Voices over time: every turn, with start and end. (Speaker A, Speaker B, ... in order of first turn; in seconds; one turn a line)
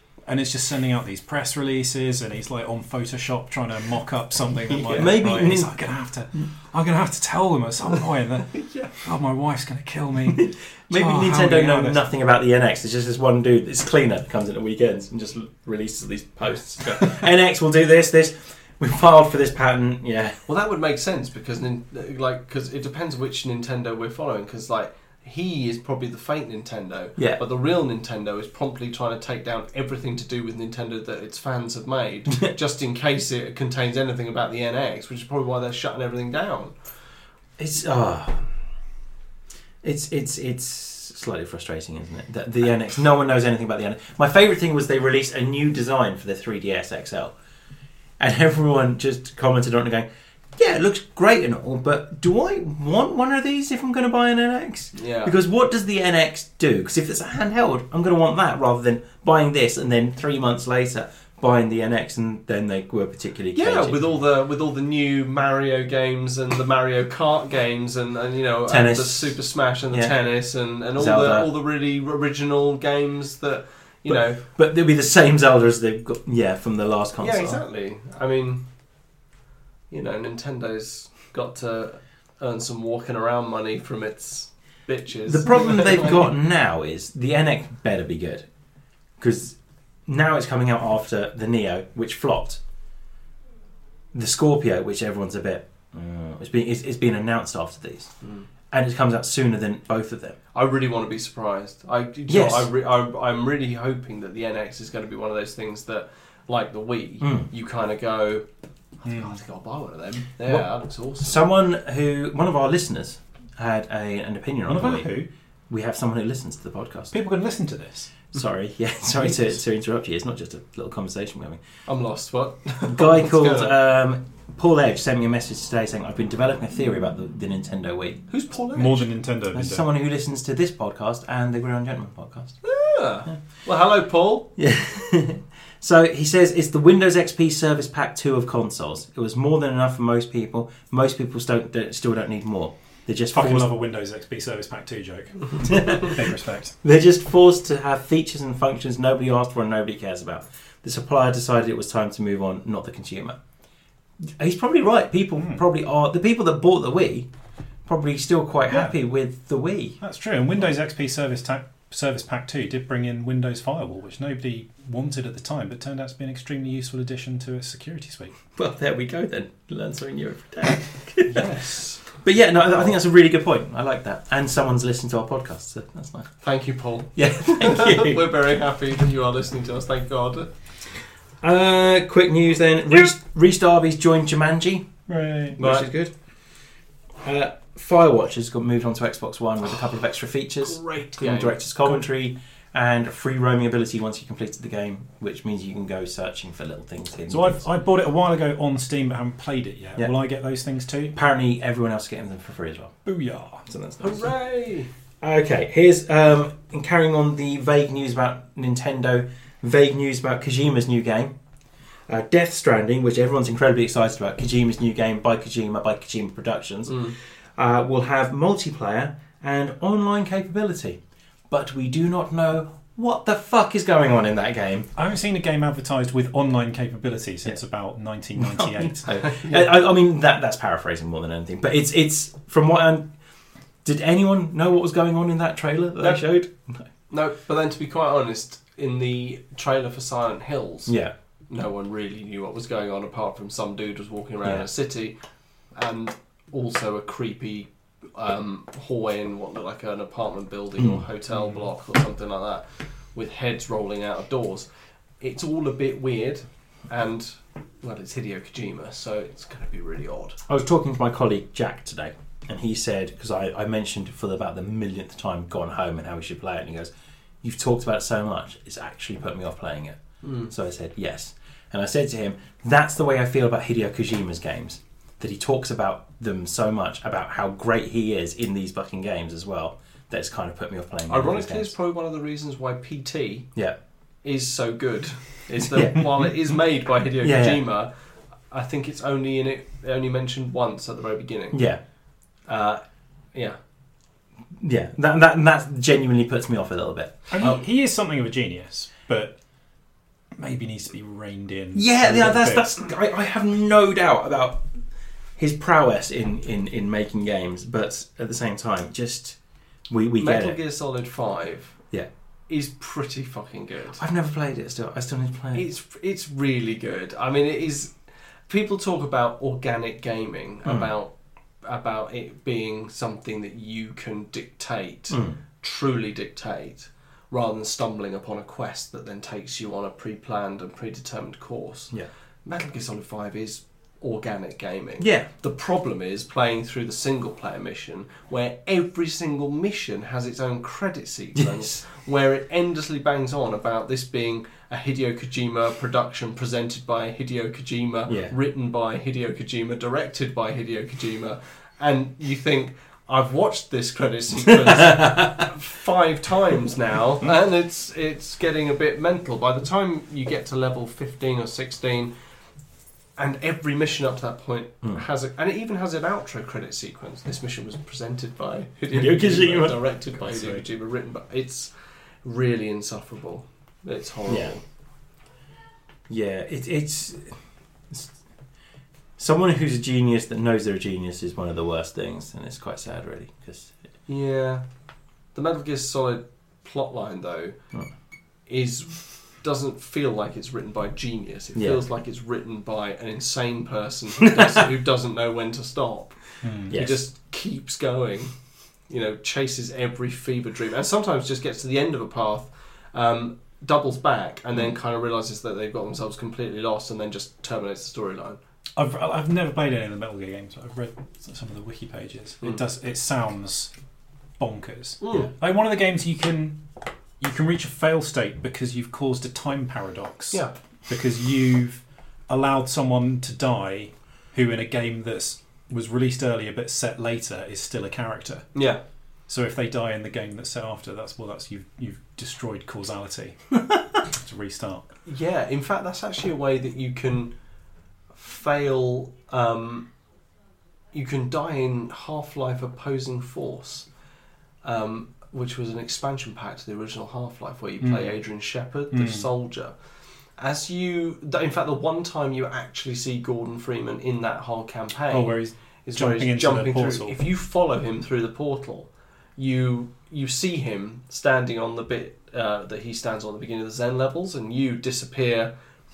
Speaker A: 0.2-12.1
Speaker B: 4.7-5.7
Speaker C: 8.5-8.9
Speaker B: 10.4-20.4
Speaker C: 20.5-36.7
Speaker B: 37.6-38.5
Speaker B: 39.8-47.3
Speaker B: 48.2-64.0
Speaker C: 54.9-55.3
Speaker C: 63.5-74.4
Speaker B: 68.7-69.4
Speaker B: 71.0-71.5
Speaker B: 74.1-77.6
Speaker C: 77.2-78.6
Speaker C: 79.9-86.3
Speaker B: 85.3-88.4
Speaker B: 89.2-92.6
Speaker B: 94.1-98.1
Speaker C: 98.2-98.5
Speaker B: 98.7-100.4
Speaker C: 100.5-108.5
Speaker B: 102.3-102.7
Speaker B: 107.2-107.5
Speaker C: 109.0-111.4
Speaker A: 109.0-109.4
Speaker B: 111.2-115.1
Speaker A: 114.7-115.3
Speaker B: 115.7-117.1
Speaker A: 117.1-118.1
Speaker B: 118.3-121.6
Speaker C: 121.9-123.7
Speaker B: 122.8-128.2
Speaker C: 128.3-129.1
Speaker A: 128.7-129.9
Speaker B: 129.5-132.6
Speaker C: 132.6-134.5
Speaker B: 134.6-143.7
Speaker A: 143.3-146.8
Speaker B: 145.6-146.1
Speaker B: 146.8-153.4
Speaker B: 154.3-157.3
Speaker B: 157.8-160.0
Speaker A: 160.0-168.3
Speaker B: 168.5-171.5
Speaker C: 171.3-172.0
Speaker B: 172.2-176.3
Speaker C: 176.4-180.5
Speaker B: 177.1-178.2
Speaker B: 181.4-184.9
Speaker A: 185.1-185.6
Speaker B: 185.6-186.1
Speaker C: 185.6-185.8
Speaker B: 187.2-197.6
Speaker C: 190.6-191.6
Speaker A: 197.3-201.1
Speaker B: 201.1-202.9
Speaker A: 203.1-203.6
Speaker B: 203.7-204.2
Speaker C: 204.0-204.9
Speaker B: 205.2-211.3
Speaker B: 212.1-224.9
Speaker A: 224.9-229.2
Speaker B: 228.4-233.1
Speaker C: 229.2-229.7
Speaker B: 233.8-236.8
Speaker C: 237.1-240.9
Speaker B: 240.9-241.1
Speaker C: 241.5-245.2
Speaker C: 245.7-254.7
Speaker B: 250.8-251.0
Speaker C: 255.2-260.4
Speaker B: 260.5-266.9
Speaker B: 267.4-281.7
Speaker C: 270.2-270.5
Speaker C: 281.1-283.5
Speaker C: 284.2-287.9
Speaker B: 285.7-286.1
Speaker B: 287.2-287.6
Speaker C: 288.5-291.6
Speaker B: 291.5-291.8
Speaker C: 292.5-293.6
Speaker B: 294.6-297.5
Speaker A: 297.3-299.3
Speaker A: 300.4-302.7
Speaker B: 301.7-304.6
Speaker B: 305.4-309.4
Speaker B: 309.9-310.6
Speaker C: 310.2-311.8
Speaker C: 312.5-314.0
Speaker B: 313.9-315.6
Speaker C: 315.5-317.9
Speaker C: 318.5-331.9
Speaker B: 325.1-325.4
Speaker C: 332.4-362.1
Speaker B: 335.0-335.3
Speaker B: 348.1-348.3
Speaker B: 354.9-355.3
Speaker C: 363.2-371.7
Speaker B: 368.9-369.8
Speaker C: 372.2-374.6
Speaker B: 376.1-377.4
Speaker B: 379.2-383.7
Speaker C: 384.1-384.6
Speaker C: 385.3-387.6
Speaker C: 388.5-396.1
Speaker B: 391.5-391.8
Speaker A: 396.4-396.8
Speaker C: 396.7-398.3
Speaker B: 396.7-397.0
Speaker C: 398.9-408.4
Speaker A: 408.8-413.7
Speaker A: 414.4-416.6
Speaker C: 415.0-415.3
Speaker A: 417.2-428.5
Speaker C: 428.5-428.8
Speaker A: 429.3-434.9
Speaker C: 435.1-437.3
Speaker C: 438.1-439.9
Speaker C: 440.9-443.9
Speaker C: 444.6-449.7
Speaker A: 447.8-448.2
Speaker A: 448.9-449.3
Speaker C: 450.4-455.3
Speaker A: 455.1-457.2
Speaker C: 455.9-465.5